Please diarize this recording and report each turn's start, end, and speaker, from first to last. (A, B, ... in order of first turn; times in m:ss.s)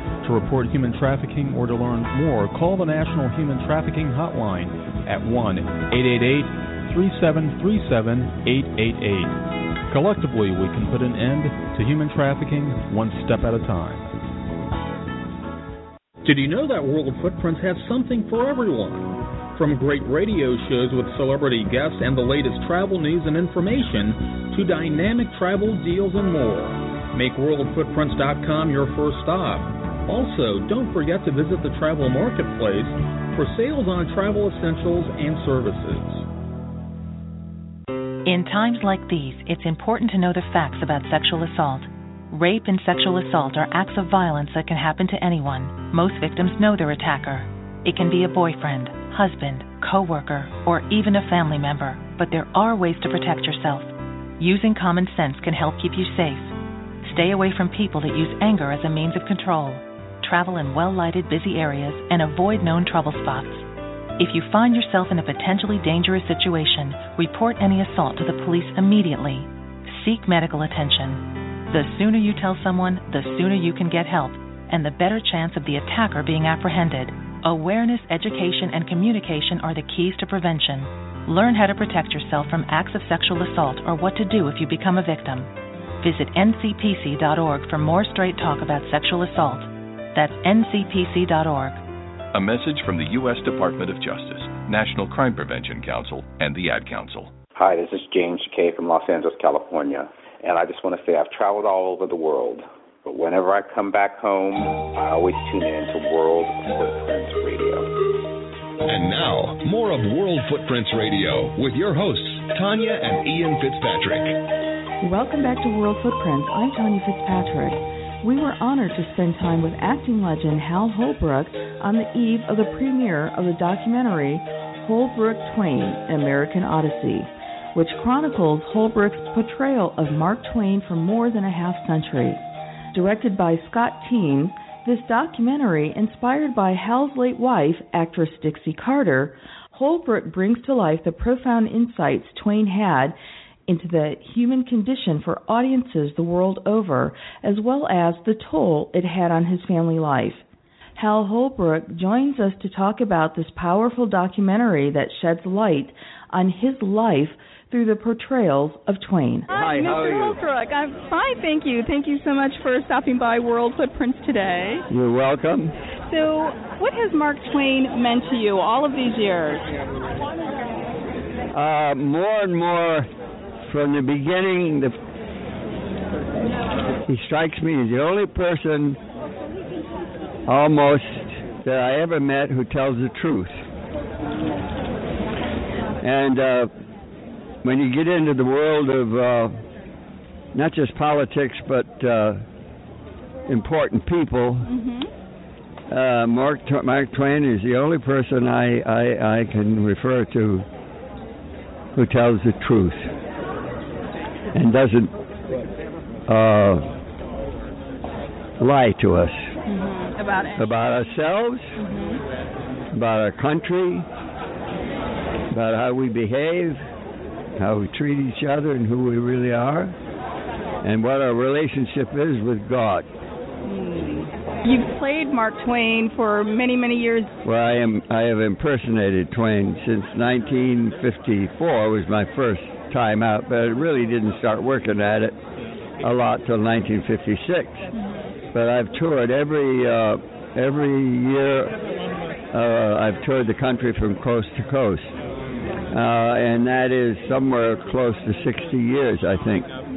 0:00.2-0:09.4 A
0:09.9-0:14.1 A
0:16.2-0:36.2 B
0:38.2-1:03.7 C
1:04.2-1:25.5 C
1:26.0-1:31.8 C
1:32.3-1:37.4 D
1:37.5-1:47.9 E
1:48.8-1:54.4 F
1:55.0-2:12.4 G
2:12.9-2:30.4 G
2:31.0-2:39.5 G
2:39.5-2:40.4 H
2:39.5-2:44.8 I
2:44.9-2:45.7 H
2:46.1-2:49.7 I
2:51.5-2:53.1 H
2:53.6-2:54.9 H
2:57.0-2:59.0 H
3:00.5-3:03.6 H
3:06.0-3:06.7 H
3:07.6-3:09.6 H
3:10.5-3:12.4 H
3:13.5-3:14.7 H
3:14.6-3:15.1 I
3:15.9-3:20.6 H
3:21.9-3:23.1 H
3:24.5-3:25.1 H
3:26.3-3:26.9 H
3:28.6-3:29.5 H
3:29.7-3:30.7 I
3:30.6-3:31.7 H
3:31.8-3:32.2 I
3:32.9-3:34.0 H
3:35.5-3:36.8 H
3:37.6-3:39.9 H
3:40.8-3:43.1 H
3:43.6-3:47.3 I
3:47.4-3:55.4 H
3:56.0-3:57.8 H
3:58.5-4:01.7 H
4:02.5-4:05.1 H
4:05.9-4:09.7 H